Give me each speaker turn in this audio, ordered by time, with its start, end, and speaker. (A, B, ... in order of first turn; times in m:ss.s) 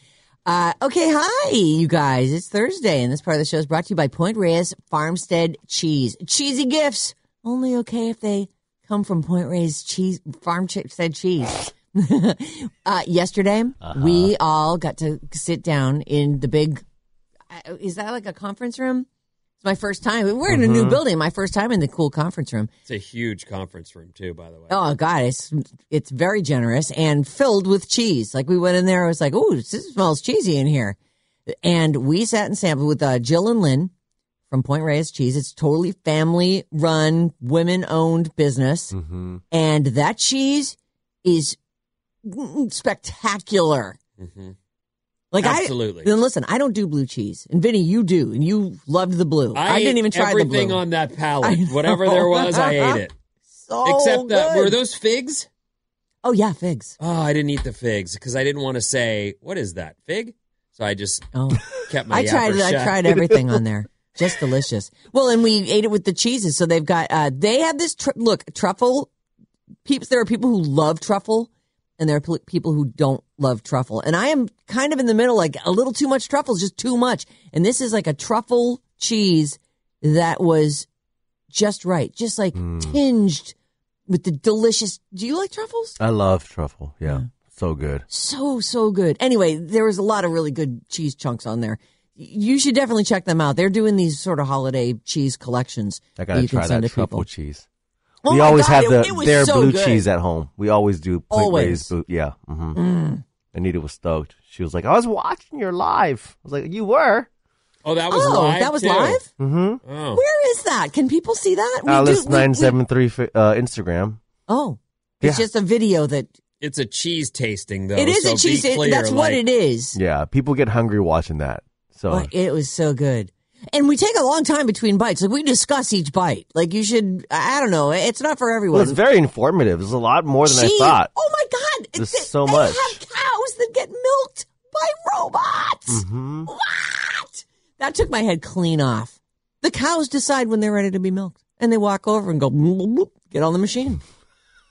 0:00.4-0:16.8 A
0:13.8-0:14.3 B
0:17.5-0:19.1 A
0:19.6-0:22.7 A
0:20.5-0:21.0 B
0:22.9-0:24.8 C
0:24.7-0:31.0 A
0:31.5-0:33.9 A
0:34.5-0:38.9 A
0:38.9-0:39.4 B
0:39.5-0:41.6 A
0:42.2-0:44.0 A
0:44.2-0:44.5 C
0:45.3-0:50.8 A
0:45.4-0:46.1 C
0:49.5-0:53.1 C
0:51.4-0:53.0 A
0:53.6-0:54.8 A
0:53.8-0:55.5 C
0:56.2-0:57.0 A
0:57.0-1:03.3 C
1:01.3-1:09.1 A
1:09.8-1:20.9 A
1:21.5-1:23.5 A
1:22.6-1:23.0 B
1:24.1-1:26.0 A
1:26.0-1:28.1 B
1:28.1-1:37.3 A
1:36.2-1:37.6 B
1:38.2-1:40.0 A
1:38.2-1:42.8 B
1:41.3-1:41.9 A
1:42.7-1:43.2 A
1:43.5-1:47.3 B
1:47.8-1:49.2 C
1:48.1-1:49.3 A
1:49.4-1:49.8 B
1:49.8-1:50.2 C
1:50.1-1:52.7 A
1:51.8-1:54.2 B
1:54.5-1:56.3 A
1:55.2-1:55.5 B
1:56.6-1:59.4 C
1:57.9-2:00.0 A
1:59.9-2:02.3 B
2:02.1-2:09.0 A
2:08.7-2:11.1 B
2:10.4-2:24.0 A
2:12.0-2:13.0 B
2:15.9-2:16.5 B